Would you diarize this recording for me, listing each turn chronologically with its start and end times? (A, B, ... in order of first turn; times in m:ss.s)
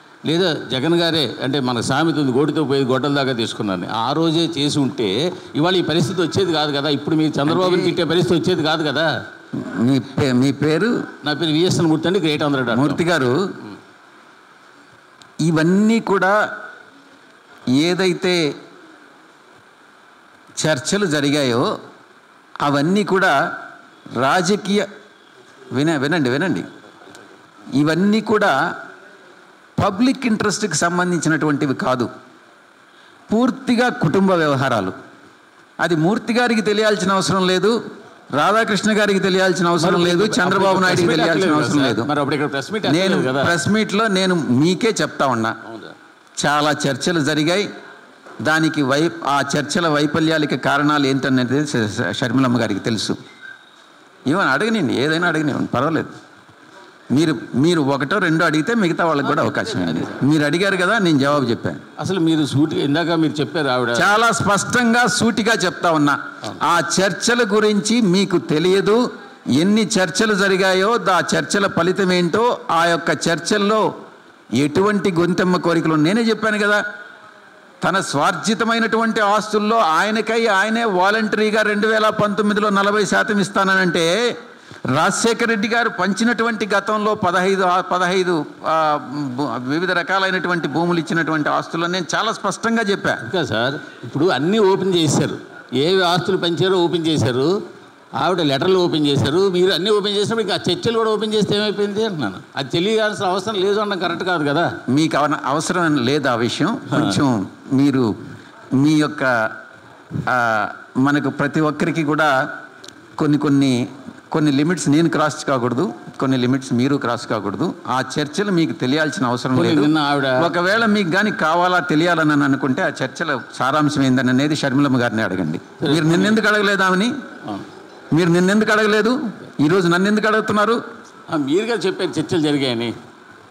0:00.3-0:09.1 A
0:07.5-0:08.0 B
0:09.6-0:10.9 B
0:11.2-0:13.0 A
0:12.7-0:13.4 B
0:15.4-0:16.3 B
0:17.8-0:18.4 B
0:20.6-0:21.7 B
0:22.6-0:23.3 B
0:24.2-0:24.8 B
0:25.7-0:26.6 B
0:27.8-0:28.5 B
0:29.8-0:32.1 B
0:33.3-0:34.9 B
0:35.8-0:37.7 B
0:38.4-0:42.1 B
0:39.8-0:43.6 A
0:42.8-0:45.5 B
0:45.6-0:45.9 A
0:46.4-0:47.6 B
0:48.4-0:53.2 B
0:54.3-0:56.1 B
0:57.1-1:01.8 B
0:59.2-1:00.2 A
1:02.0-1:04.1 A
1:04.0-1:09.0 B
1:09.6-1:13.8 B
1:14.6-1:16.8 B
1:17.8-1:24.1 B
1:24.9-1:33.2 B
1:33.2-1:37.5 A
1:38.2-1:44.7 A
1:44.9-1:48.1 B
1:46.9-1:47.2 A
1:48.8-1:49.5 B
1:50.3-1:52.3 B
1:53.2-1:53.7 B
1:54.3-2:07.1 B
1:59.5-2:00.5 A
2:05.8-2:06.4 A
2:08.1-2:10.8 B
2:11.3-2:12.9 A